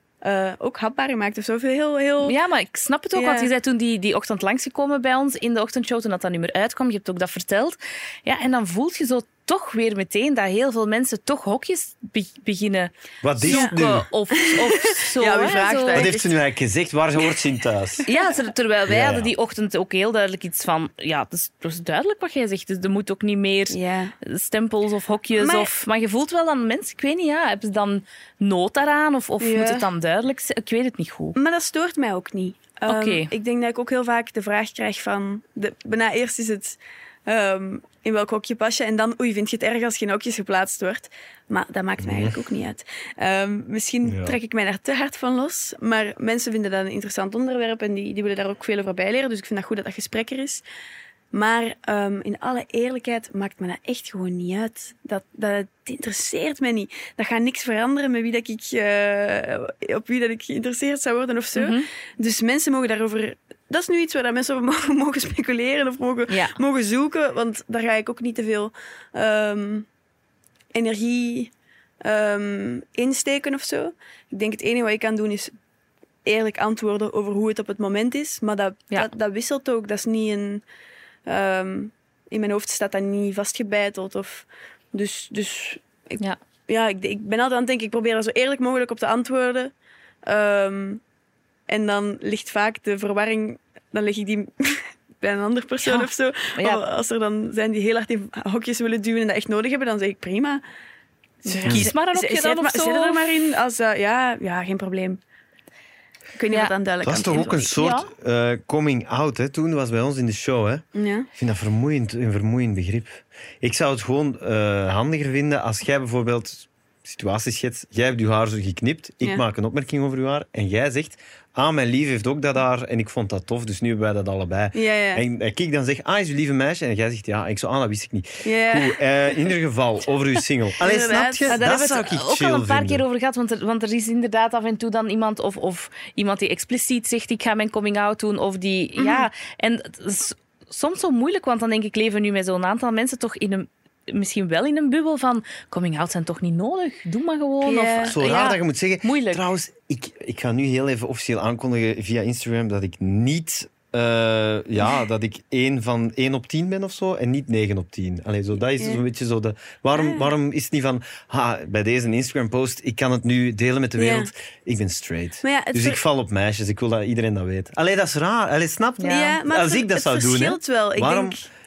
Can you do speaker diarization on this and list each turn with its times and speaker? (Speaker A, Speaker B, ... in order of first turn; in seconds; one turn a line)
Speaker A: 0.2-2.4
Speaker B: 2.2-16.1
Speaker A: 3.1-3.5
Speaker C: 13.2-14.1
Speaker A: 13.5-13.8
Speaker A: 14.3-16.3
Speaker C: 15.9-18.1
Speaker B: 18.1-31.4
Speaker C: 18.9-19.3
Speaker A: 23.7-24.1
Speaker A: 25.4-25.8
Speaker A: 29.4-29.9
Speaker A: 31.4-50.6
Speaker B: 32.9-33.3
Speaker C: 42.0-42.4
Speaker C: 44.0-44.4
Speaker A: 51.3-69.9
Speaker B: 61.6-61.9
Speaker B: 66.3-66.6
Speaker A: 70.7-71.5
Speaker A: 72.0-75.5
Speaker A: 76.2-80.6
Speaker A: 81.3-89.7
Speaker A: 90.3-91.0
Speaker A: 91.7-100.6
Speaker B: 95.8-96.8
Speaker A: 101.5-105.2
Speaker B: 101.5-103.3
Speaker C: 101.6-101.9
Speaker A: 106.4-107.8
Speaker C: 107.0-133.0
Speaker B: 107.8-108.1
Speaker A: 111.0-111.3
Speaker A: 124.7-125.2
Speaker A: 128.4-129.0
Speaker A: 130.8-131.8
Speaker B: 131.5-149.4
Speaker A: 139.0-139.3
Speaker A: 147.6-148.2
Speaker C: 148.1-171.4
Speaker A: 159.9-160.3
Speaker A: 164.0-164.3
Speaker A: 165.4-166.0
Speaker B: 169.0-169.3
Speaker A: 169.0-171.4